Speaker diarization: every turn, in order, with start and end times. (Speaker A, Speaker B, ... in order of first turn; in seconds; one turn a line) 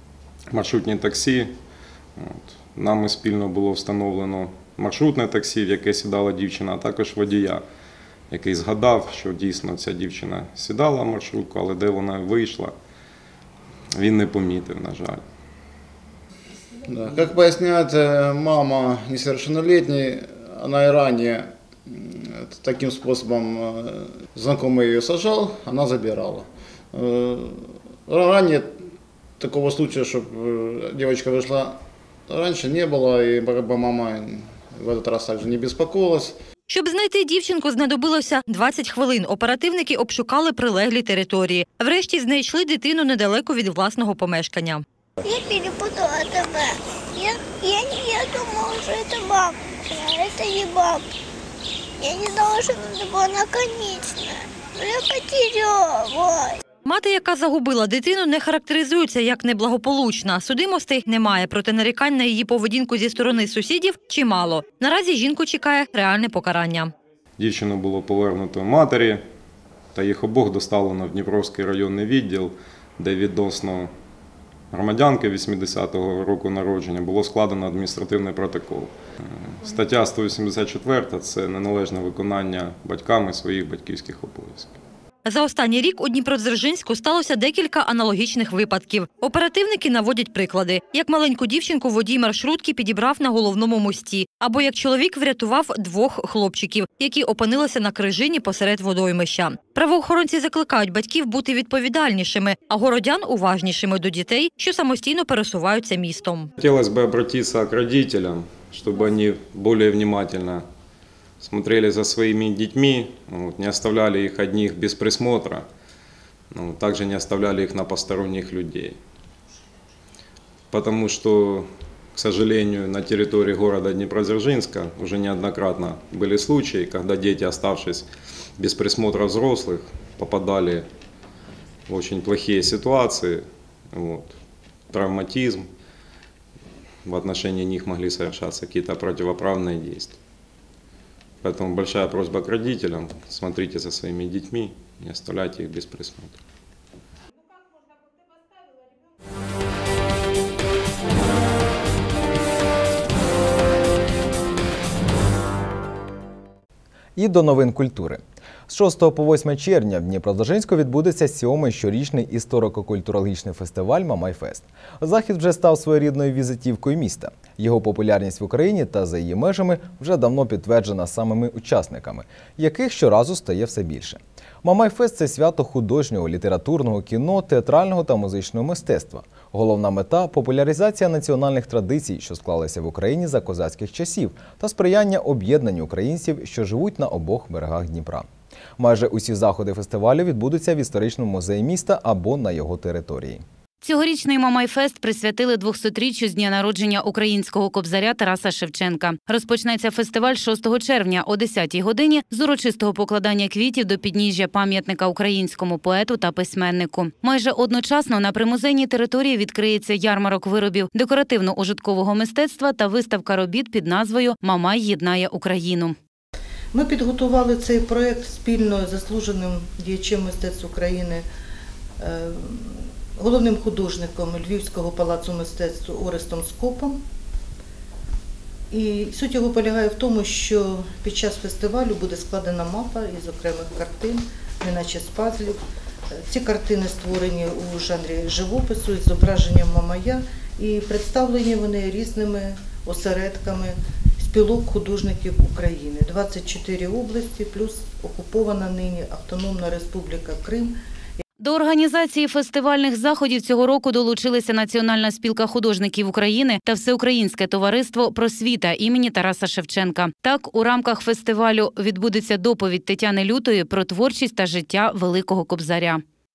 Speaker A: 0.5-1.6
Speaker A: 2.2-7.6
Speaker A: 8.3-12.7
Speaker A: 13.9-15.2
Speaker B: 16.9-28.7
Speaker B: 29.4-36.3
Speaker C: 36.7-44.8
Speaker D: 45.2-51.0
Speaker D: 52.0-56.6
Speaker C: 56.8-66.9
Speaker A: 67.4-69.2
Speaker A: 69.9-73.9
Speaker A: 74.7-84.8
Speaker C: 85.2-106.5
Speaker A: 106.6-110.7
Speaker A: 111.4-115.7
Speaker A: 116.5-119.0
Speaker A: 120.7-128.1
Speaker A: 128.6-130.9
Speaker A: 131.9-134.4
Speaker A: 134.9-135.7
Speaker A: 137.0-140.2
Speaker A: 141.4-146.4
Speaker E: 157.2-188.3
Speaker E: 188.8-193.4
Speaker F: 193.8-215.9
Speaker G: 216.7-221.2
Speaker G: 222.0-227.0
Speaker G: 228.7-235.6
Speaker G: 236.1-250.8
Speaker F: 251.4-266.0